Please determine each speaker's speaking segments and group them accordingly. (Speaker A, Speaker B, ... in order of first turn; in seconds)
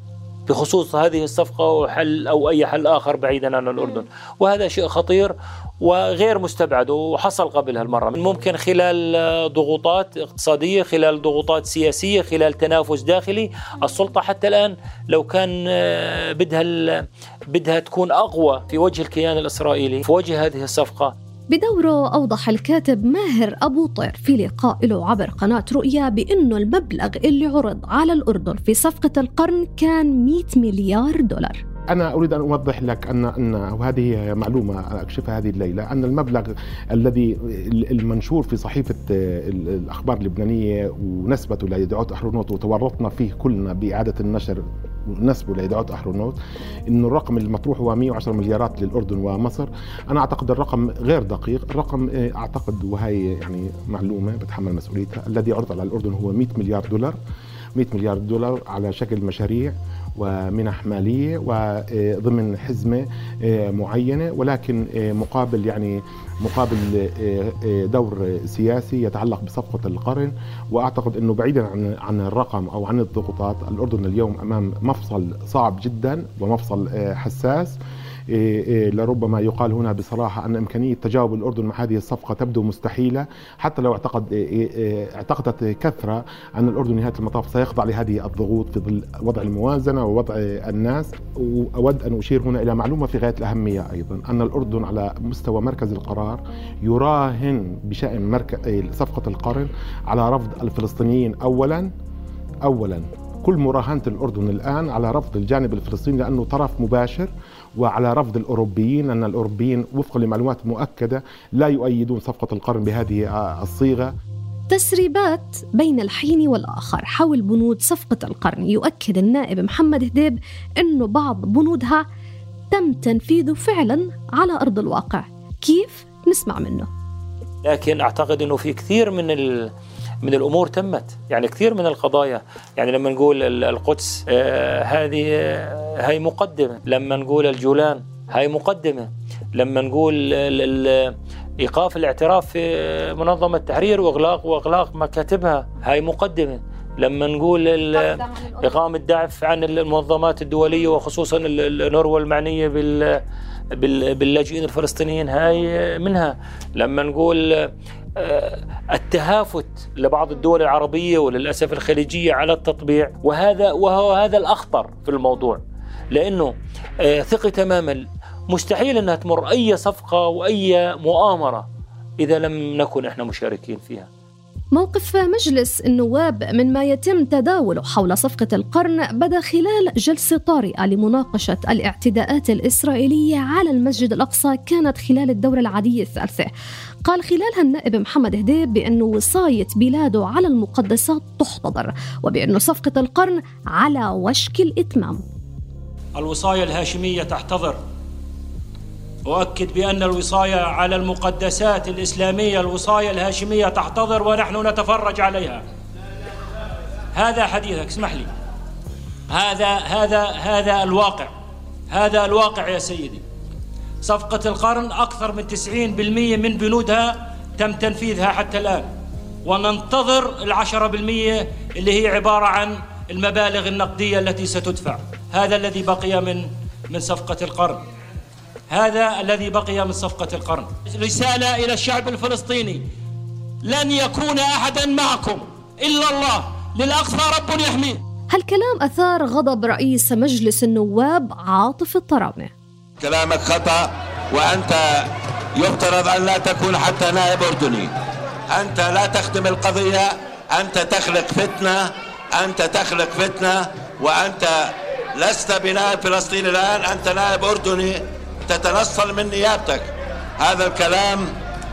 Speaker A: 0.5-21.1, 127.6-129.7, 130.2-153.2, 153.8-165.6, 166.1-166.5, 167.0-171.7, 172.2-174.1, 196.4-196.7
Speaker B: 21.5-31.6, 114.7-122.0, 122.7-126.9, 174.8-186.5, 187.1-195.2, 238.3-242.5
Speaker C: 31.9-44.6, 45.2-46.4, 46.9-57.2, 57.8-77.8, 78.3-101.9, 102.6-114.1
Speaker D: 200.5-202.8, 205.0-205.5, 207.5-207.7, 209.5-210.9, 212.1-213.0, 214.2-217.0, 217.8-218.7, 219.6-221.2, 221.9-222.6, 223.4-224.9, 225.5-226.3, 227.1-227.6, 228.7-232.8, 233.7-238.0
Speaker E: 243.0-245.0, 245.6-247.9, 248.5-261.3